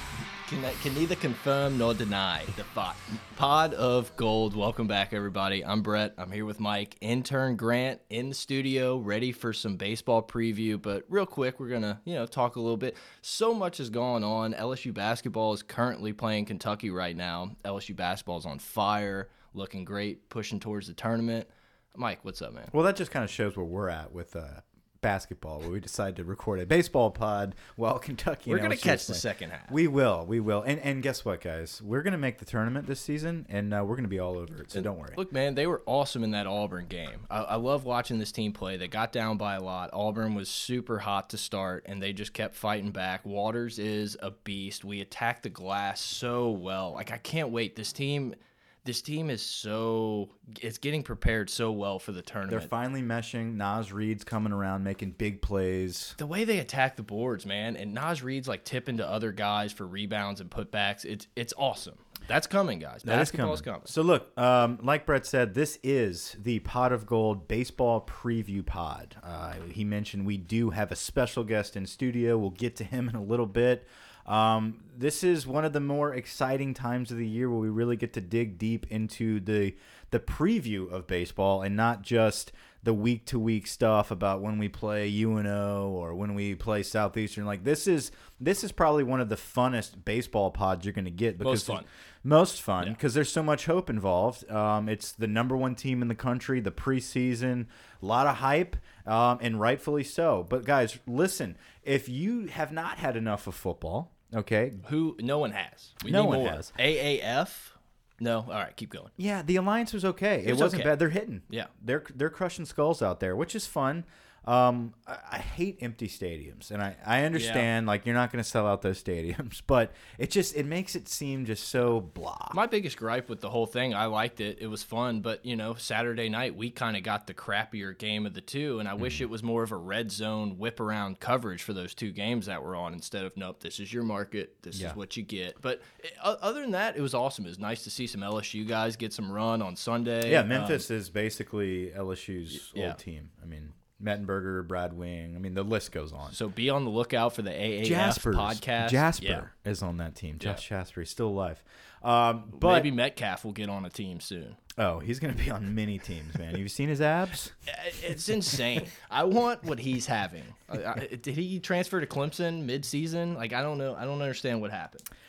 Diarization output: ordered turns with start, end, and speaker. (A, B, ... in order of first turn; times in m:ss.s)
0:00.4-0:22.7 A
0:22.7-0:35.2 B
0:28.5-0:29.8 A
0:34.7-0:52.7 A
0:52.5-0:56.2 B
0:56.2-1:03.9 A
1:03.0-1:44.8 B
1:31.4-1:31.9 A
1:44.8-1:49.1 A
1:46.0-1:46.7 B
1:49.2-2:02.6 B
1:50.4-1:51.7 A
1:57.3-1:57.7 A
2:02.5-2:20.8 A
2:14.7-2:15.0 B
2:20.2-2:26.4 B
2:22.5-2:23.0 A
2:26.3-2:29.5 A
2:27.8-2:32.9 B
2:32.5-2:34.6 A
2:34.8-2:37.5 B
2:37.7-2:45.1 A